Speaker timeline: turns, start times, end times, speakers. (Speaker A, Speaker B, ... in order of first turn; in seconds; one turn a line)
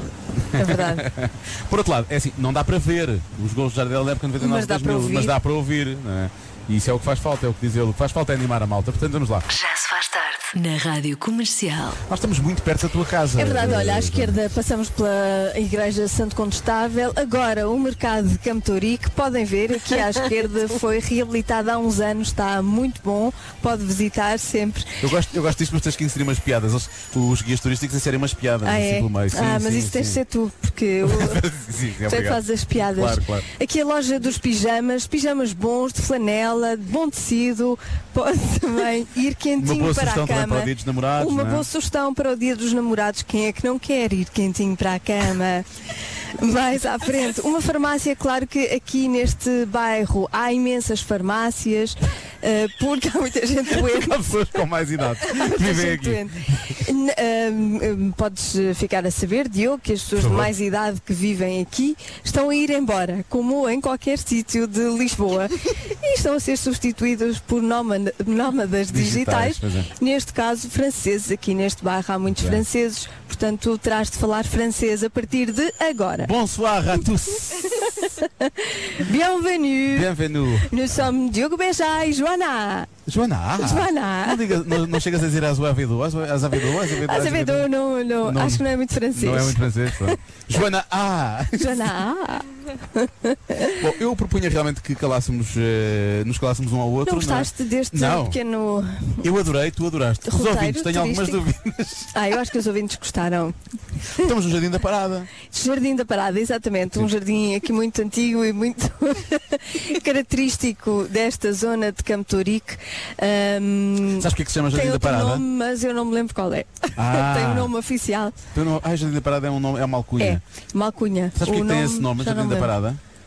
Speaker A: 0.6-9.5
Speaker B: 0.6-1.1
Speaker B: 4.4-5.3
Speaker C: 9.5-12.0
Speaker A: 12.1-14.4
Speaker B: 13.4-25.0
Speaker A: 25.0-30.2
Speaker B: 28.6-31.4
Speaker A: 31.0-33.5
Speaker B: 32.0-45.7
Speaker A: 39.6-41.7
Speaker B: 46.4-54.3
Speaker A: 53.7-56.5
Speaker B: 55.3-76.3
Speaker A: 60.1-60.5
Speaker A: 68.9-69.9
Speaker A: 72.3-72.7
Speaker A: 76.2-77.8
Speaker B: 77.9-80.1
Speaker A: 79.9-81.1
Speaker B: 80.6-82.9
Speaker A: 83.1-87.7
Speaker B: 83.6-84.4
Speaker B: 87.0-90.1
Speaker A: 88.2-91.9
Speaker B: 91.6-93.8
Speaker A: 93.7-98.4
Speaker B: 97.0-99.2
Speaker A: 99.2-102.1
Speaker B: 100.2-101.4
Speaker B: 102.1-103.6
Speaker A: 104.2-105.3
Speaker B: 105.4-118.4
Speaker A: 114.2-115.5
Speaker A: 117.0-117.7
Speaker A: 118.5-120.4
Speaker B: 120.2-122.7
Speaker A: 121.4-123.0